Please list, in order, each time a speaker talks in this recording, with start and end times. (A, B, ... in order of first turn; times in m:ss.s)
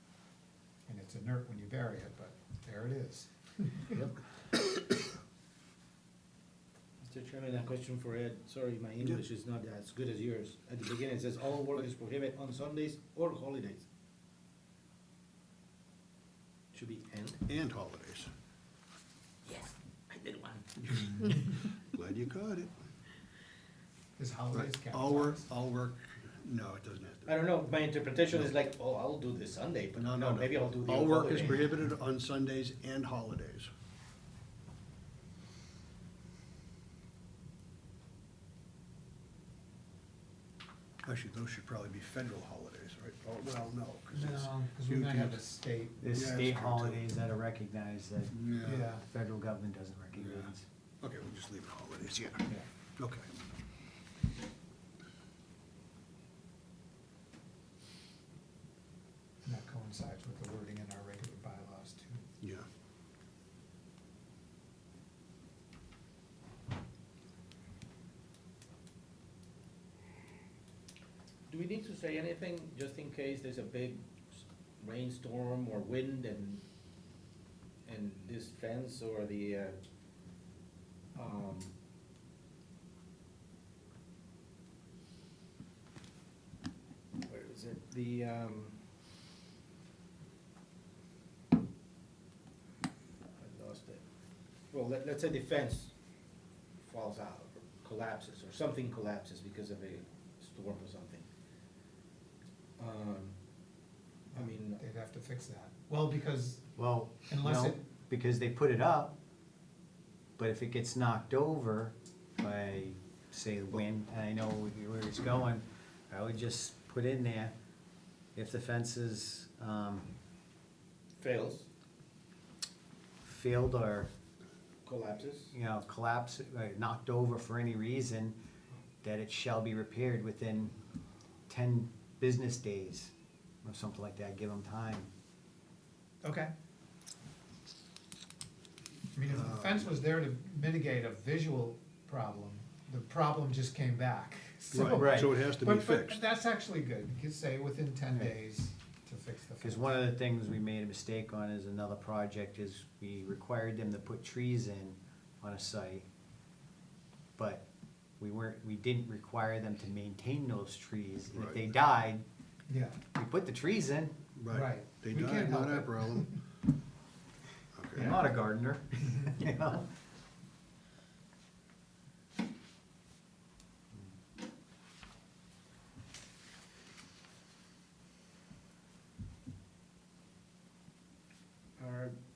0:00.9-0:03.8 A
0:03.9-0:04.2 B
0:07.0-0:13.9 B
0:16.7-0:17.4 B
0:17.5-0:18.3 C
0:19.4-0:20.7 B
0:20.8-0:22.7 C
0:24.2-0:25.5 A
0:24.5-0:27.3 C
0:27.2-0:31.8 B
0:30.0-0:33.7 C
0:41.0-0:45.4 C
0:44.1-0:46.1 A
0:46.0-0:50.6 D
0:46.1-0:47.0 C
0:48.3-0:48.8 C
0:48.6-0:49.0 A
0:50.2-0:50.5 C
0:51.0-0:52.5 C
0:53.0-0:53.3 C
0:59.4-1:02.2 A
1:02.4-1:02.7 C
1:11.5-1:16.6 B
1:17.8-1:19.8 B
1:21.1-1:21.7 B
1:27.2-1:28.8 B
1:33.4-1:34.0 B
1:34.7-1:35.9 B
1:36.8-1:41.2 B
1:42.8-1:43.4 B
1:44.3-1:44.8 B
1:44.3-1:46.7 A
1:46.8-1:49.2 D
1:47.3-1:47.8 A
1:50.4-1:57.5 D
1:58.3-2:00.1 D
2:01.2-2:01.7 B
2:03.2-2:04.1 D
2:04.8-2:05.5 B
2:05.5-2:08.4 D
2:09.0-2:10.8 D
2:11.5-2:13.1 D
2:13.6-2:15.1 D
2:16.2-2:16.5 A
2:19.1-2:30.0 A
2:19.3-2:19.9 C
2:24.7-2:26.2 C
2:24.9-2:25.3 D
2:29.6-2:36.1 D
2:37.4-2:37.6 D
2:38.2-2:42.2 D
2:41.3-2:41.6 C
2:42.7-2:43.0 A
2:43.1-2:44.2 D
2:44.4-2:46.4 C
2:44.5-2:46.4 A
2:47.7-2:48.2 C
2:48.0-2:48.2 A
2:48.0-2:49.9 D
3:01.8-3:02.2 B